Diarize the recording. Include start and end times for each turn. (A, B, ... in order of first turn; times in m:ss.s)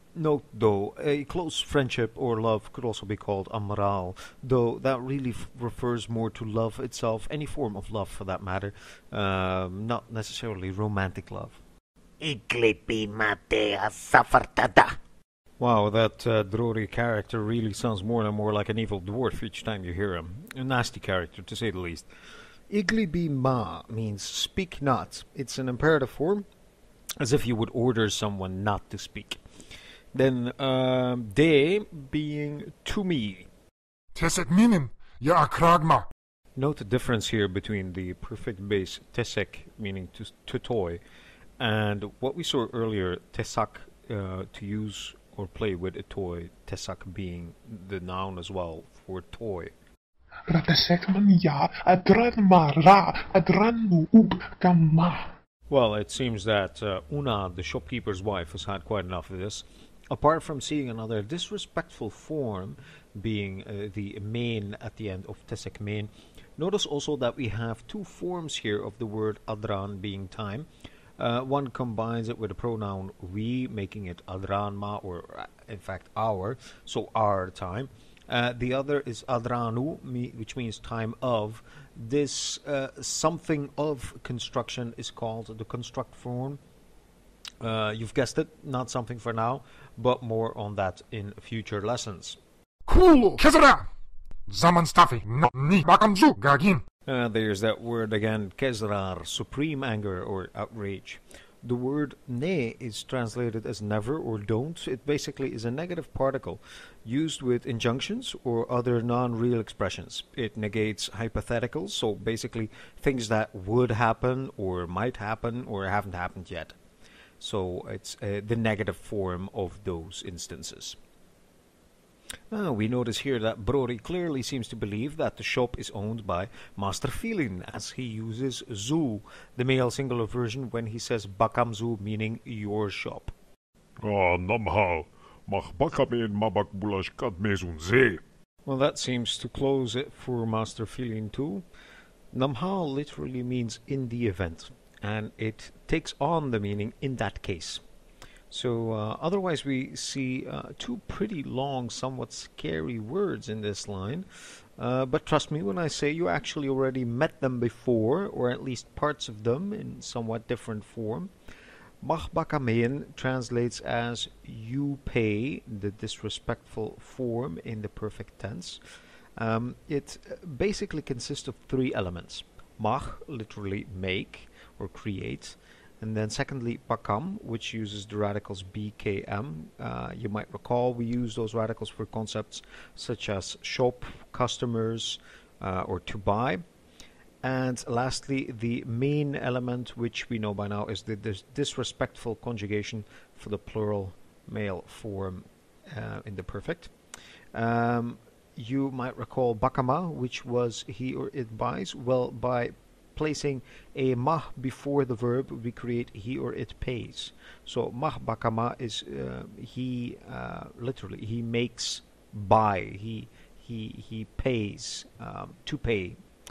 0:00.1-0:11.6 A
0:12.2-0:15.0 B
0:15.6-0:22.1 A
0:22.7-0:26.4 A
0:27.2-0:29.4 A
0:30.1-0:33.5 A
0:34.1-0:36.1 C
0:36.6-0:41.0 A
0:41.6-0:49.7 A
0:50.5-0:55.3 D
0:55.7-1:10.7 A
1:11.2-1:26.6 A
1:27.6-1:32.4 A
1:32.9-1:33.9 C
1:34.5-1:36.8 C
1:37.1-1:56.8 A
1:57.4-2:01.0 A
2:02.5-2:13.3 A
2:14.0-2:18.2 E
2:18.7-2:21.6 A
2:22.3-2:27.8 A
2:28.5-2:34.3 A
2:34.8-2:41.3 A
2:42.0-2:48.8 A
2:49.4-3:06.6 A
3:07.4-3:16.9 A
3:17.5-3:36.2 A